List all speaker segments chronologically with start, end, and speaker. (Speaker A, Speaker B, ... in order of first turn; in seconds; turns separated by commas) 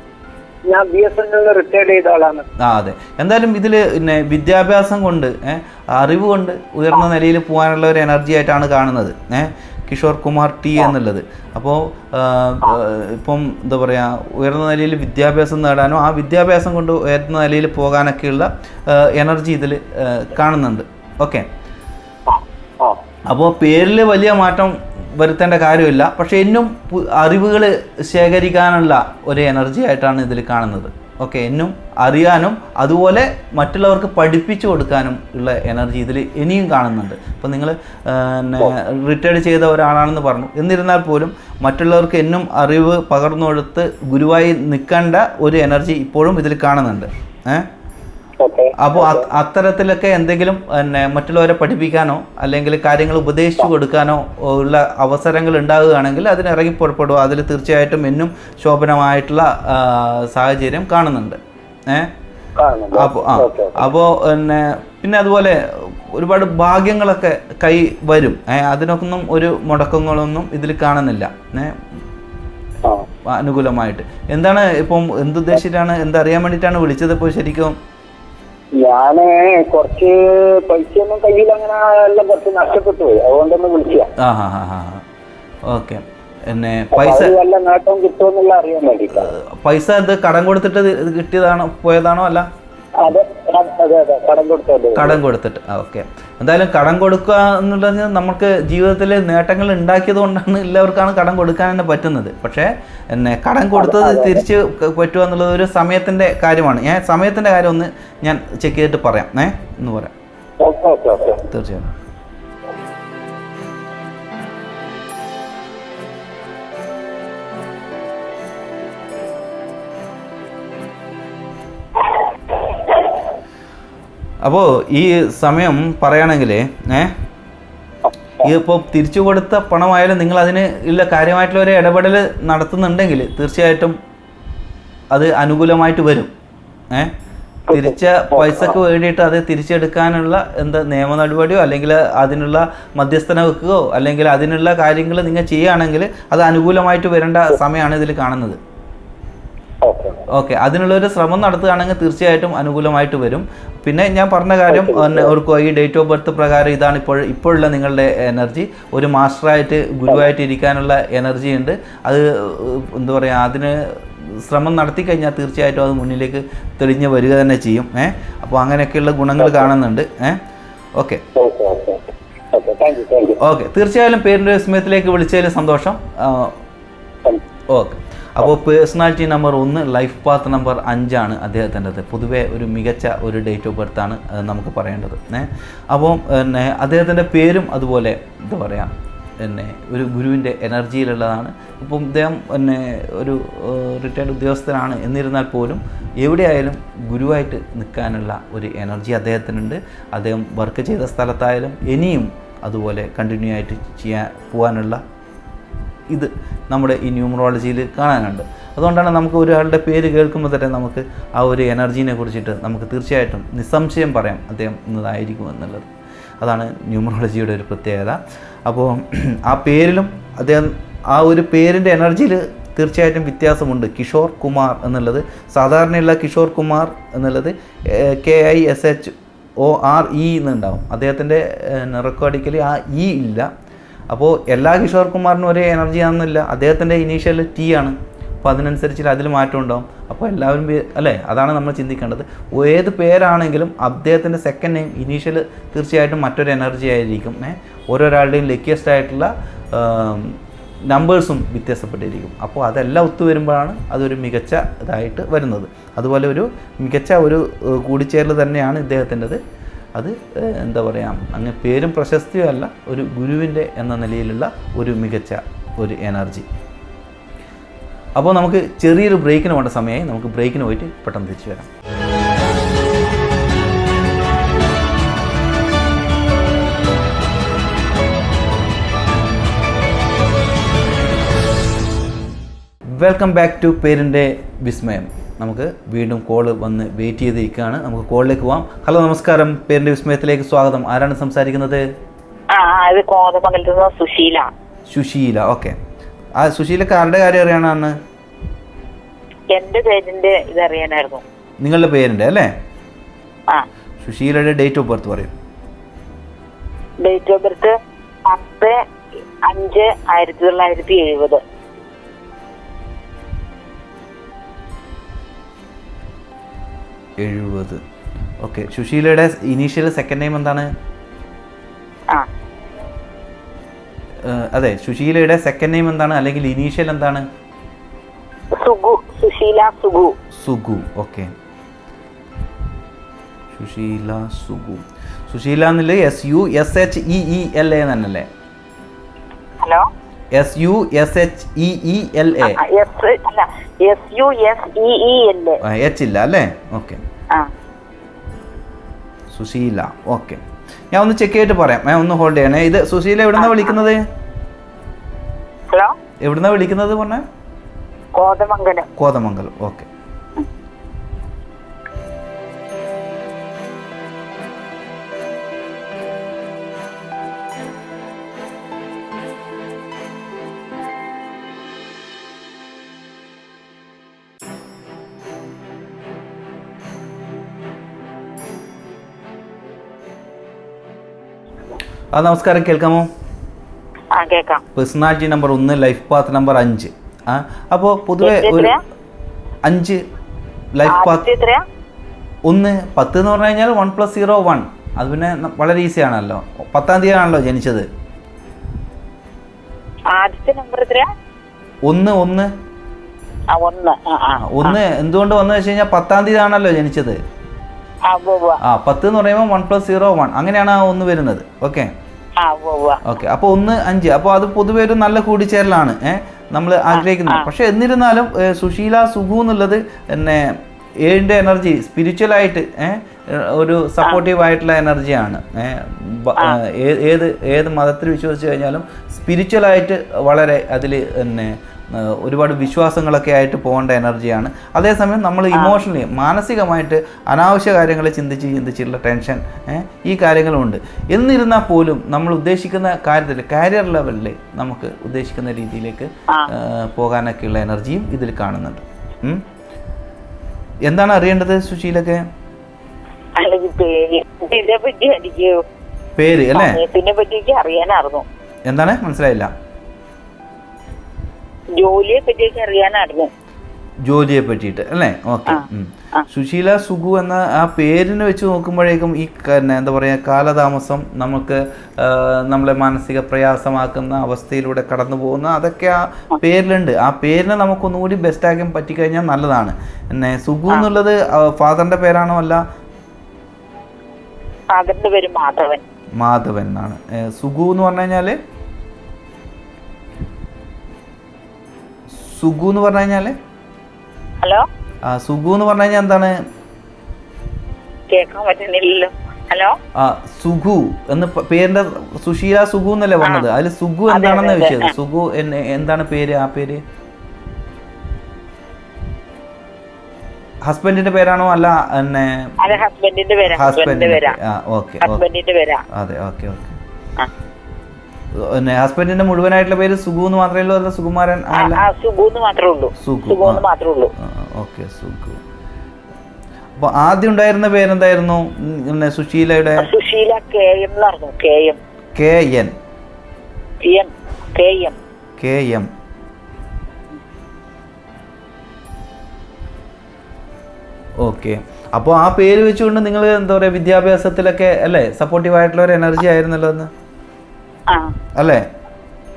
Speaker A: 0.7-2.5, Speaker B: 2.6-21.5, Speaker A: 22.3-23.0, Speaker B: 23.3-47.7, Speaker A: 48.4-49.3, Speaker B: 48.8-62.1, Speaker A: 62.6-63.9, Speaker B: 62.9-71.8, Speaker B: 73.2-77.8, Speaker A: 78.8-84.1, Speaker B: 84.2-85.0, Speaker B: 85.6-87.3, Speaker A: 86.9-89.3, Speaker B: 89.1-92.5, Speaker A: 93.0-95.2, Speaker B: 94.9-110.1, Speaker A: 103.8-104.4, Speaker A: 110.6-111.5, Speaker B: 111.5-111.9, Speaker B: 124.4-127.1, Speaker B: 128.4-134.0, Speaker B: 135.1-136.3, Speaker A: 137.7-138.7, Speaker B: 137.7-148.6, Speaker A: 149.8-150.2, Speaker B: 150.3-170.4, Speaker A: 154.7-155.3, Speaker A: 169.4-169.7, Speaker B: 171.0-171.2, Speaker A: 171.3-173.4, Speaker B: 173.4-176.6, Speaker B: 177.7-205.0, Speaker B: 206.1-215.9, Speaker B: 216.4-233.5, Speaker B: 234.1-250.4, Speaker B: 250.9-259.4, Speaker B: 259.9-266.4, Speaker B: 268.1-271.7, Speaker B: 282.9-291.8, Speaker C: 292.5-294.5, Speaker B: 294.9-295.8, Speaker B: 296.4-297.9, Speaker C: 299.5-301.2, Speaker B: 301.6-302.5, Speaker B: 304.0-305.3, Speaker C: 307.0-307.7, Speaker C: 308.2-308.8, Speaker C: 309.4-311.4, Speaker B: 317.2-317.8, Speaker B: 318.4-320.7, Speaker B: 324.2-327.2, Speaker C: 328.6-330.1, Speaker B: 330.3-331.3, Speaker B: 333.5-338.3, Speaker C: 339.6-339.9, Speaker B: 340.3-342.6, Speaker C: 342.4-345.6, Speaker B: 345.6-347.0, Speaker B: 349.3-354.0, Speaker C: 353.4-353.8, Speaker C: 355.7-355.9, Speaker B: 356.2-357.2, Speaker C: 358.1-358.9, Speaker B: 358.9-359.9, Speaker B: 382.1-383.1, Speaker C: 384.1-384.6, Speaker B: 384.7-388.7, Speaker C: 388.2-388.8, Speaker B: 389.6-390.0, Speaker B: 390.7-391.2, Speaker C: 390.8-391.6, Speaker B: 392.4-397.9, Speaker C: 400.1-401.1, Speaker B: 401.8-402.5, Speaker C: 403.5-404.8, Speaker B: 404.4-407.2, Speaker C: 408.0-408.6, Speaker B: 408.6-411.9, Speaker C: 412.4-413.0, Speaker B: 413.0-449.4, Speaker C: 416.9-417.5, Speaker C: 435.5-435.8, Speaker B: 450.8-452.2, Speaker C: 453.4-455.6, Speaker B: 456.1-456.8, Speaker C: 456.5-458.2, Speaker B: 458.6-459.5, Speaker C: 461.7-463.3, Speaker B: 464.0-482.6, Speaker C: 465.5-466.2, Speaker C: 484.7-485.8, Speaker B: 486.2-488.4, Speaker B: 492.1-493.4, Speaker C: 494.4-494.7, Speaker B: 495.0-496.4, Speaker C: 498.1-499.8, Speaker B: 499.9-506.8, Speaker C: 504.1-504.9, Speaker B: 510.6-512.8, Speaker C: 512.6-514.4, Speaker B: 513.5-515.2, Speaker C: 515.0-515.8, Speaker B: 515.9-516.8, Speaker B: 518.3-521.8, Speaker C: 521.5-524.1, Speaker B: 523.0-523.6, Speaker B: 524.2-525.4, Speaker B: 526.8-529.9, Speaker C: 529.8-531.8, Speaker B: 532.1-532.7, Speaker C: 533.8-535.0, Speaker B: 535.4-535.9, Speaker B: 541.2-546.9, Speaker C: 547.9-548.1, Speaker B: 548.4-548.6